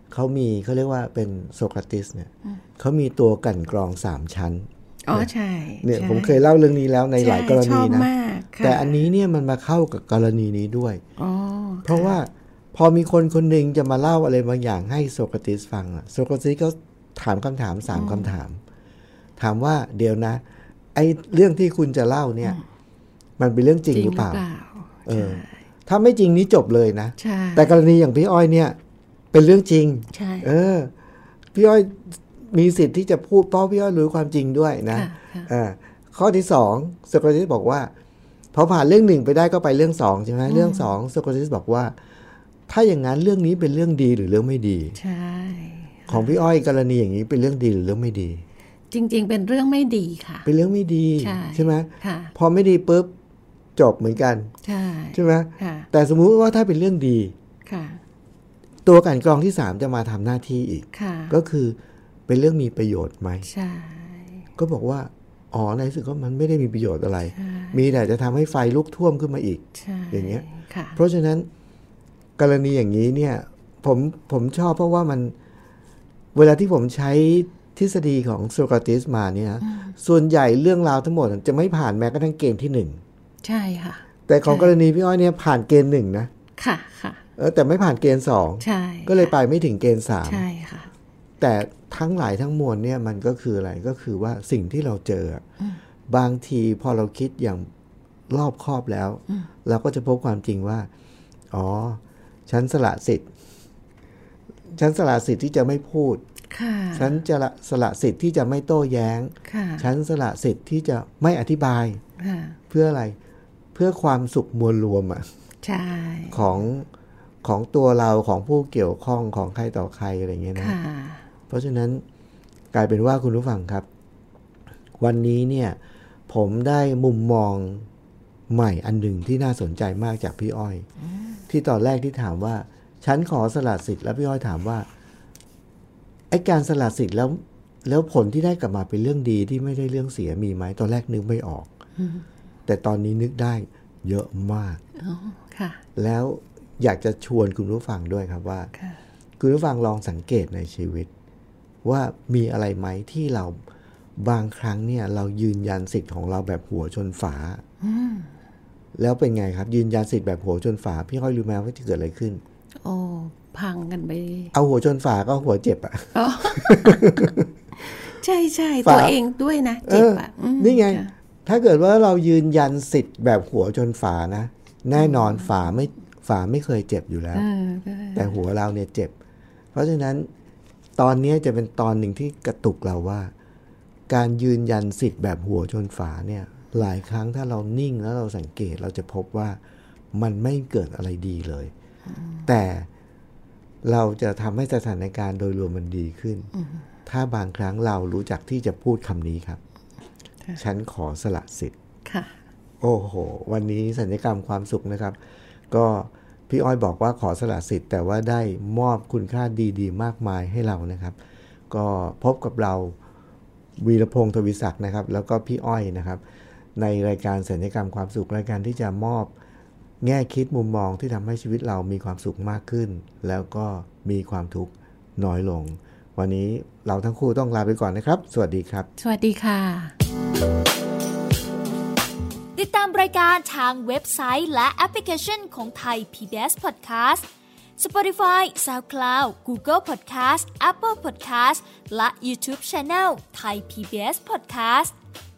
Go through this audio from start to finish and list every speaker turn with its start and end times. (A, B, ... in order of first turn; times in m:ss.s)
0:00.1-0:05.3 A
0:05.0-0:06.4 B
0:05.8-0:08.1 A
0:07.2-0:09.0 B
0:08.6-0:11.0 A
0:11.2-0:12.2 B
0:11.8-0:18.6 A
0:17.9-0:18.3 B
0:19.4-0:20.4 A
0:20.9-0:22.6 A
0:23.4-0:24.4 A
0:23.9-0:25.5 B
0:25.0-0:28.8 A
0:27.2-0:27.7 B
0:29.3-0:30.9 A
0:30.1-0:30.5 B
0:31.5-0:37.9 A
0:34.9-0:35.5 B
0:38.5-0:41.9 A
0:40.5-0:40.9 B
0:42.7-0:45.0 A
0:45.0-0:46.3 B
0:46.1-0:48.4 A
0:48.9-0:50.5 B
0:50.4-0:53.1 A
0:51.2-0:52.3 B
0:53.8-0:54.5 A
0:54.6-0:55.9 B
0:55.1-0:57.3 A
0:57.7-0:58.0 B
0:58.8-1:03.5 A
1:00.9-1:01.4 B
1:03.4-1:04.4 B
1:04.6-1:11.5 A
1:07.3-1:07.8 B
1:09.7-1:11.0 B
1:12.4-1:15.3 A
1:16.3-1:23.0 A
1:19.6-1:19.9 B
1:23.4-1:24.7 B
1:24.3-1:26.3 A
1:26.6-1:27.2 B
1:27.4-1:30.4 A
1:28.6-1:29.3 B
1:30.2-1:30.9 B
1:31.4-1:35.4 A
1:36.1-1:37.7 A
1:38.3-1:40.9 A
1:41.5-1:43.3 A
1:44.7-1:46.2 A
1:46.5-1:47.1 B
1:46.9-1:52.0 A
1:49.4-1:49.9 B
1:52.2-1:52.6 B
1:52.7-1:53.2 A
1:53.7-1:55.2 A
1:55.6-1:56.5 B
1:56.3-1:56.9 A
1:57.4-2:00.8 A
2:00.6-2:01.2 B
2:01.5-2:02.0 A
2:02.7-2:03.8 A
2:05.0-2:05.8 A
2:06.3-2:07.9 A
2:08.5-2:10.8 A
2:11.5-2:14.8 A
2:16.3-2:21.7 A
2:22.0-2:22.2 B
2:22.7-2:24.8 A
2:25.0-2:25.8 B
2:26.0-2:28.7 A
2:29.4-2:31.1 A
2:31.8-2:33.5 A
2:34.2-2:37.6 A
2:37.8-2:38.3 B
2:38.9-2:42.4 A
2:42.8-2:44.5 B
2:44.5-2:47.5 A
2:46.1-2:47.3 B
2:47.8-2:51.1 B
2:48.8-2:49.2 A
2:49.8-2:57.5 A
2:55.0-2:55.5 B
2:57.3-2:58.4 B
2:58.1-2:59.1 A
2:59.7-3:00.3 A
3:01.0-3:03.3 A
3:04.1-3:09.6 A
3:10.1-3:11.7 A
3:12.1-3:12.4 B
3:12.4-3:12.9 A
3:13.8-3:16.5 A
3:16.6-3:16.8 B
3:17.0-3:19.6 A
3:20.6-3:21.7 A
3:22.0-3:22.3 B
3:22.8-3:25.2 A
3:25.7-3:31.2 A
3:31.7-3:32.9 A
3:33.8-3:36.2 A
3:36.8-3:39.3 A
3:40.0-3:48.9 A
3:49.0-3:49.9 B
3:52.5-3:57.2 C
3:57.8-4:04.9 C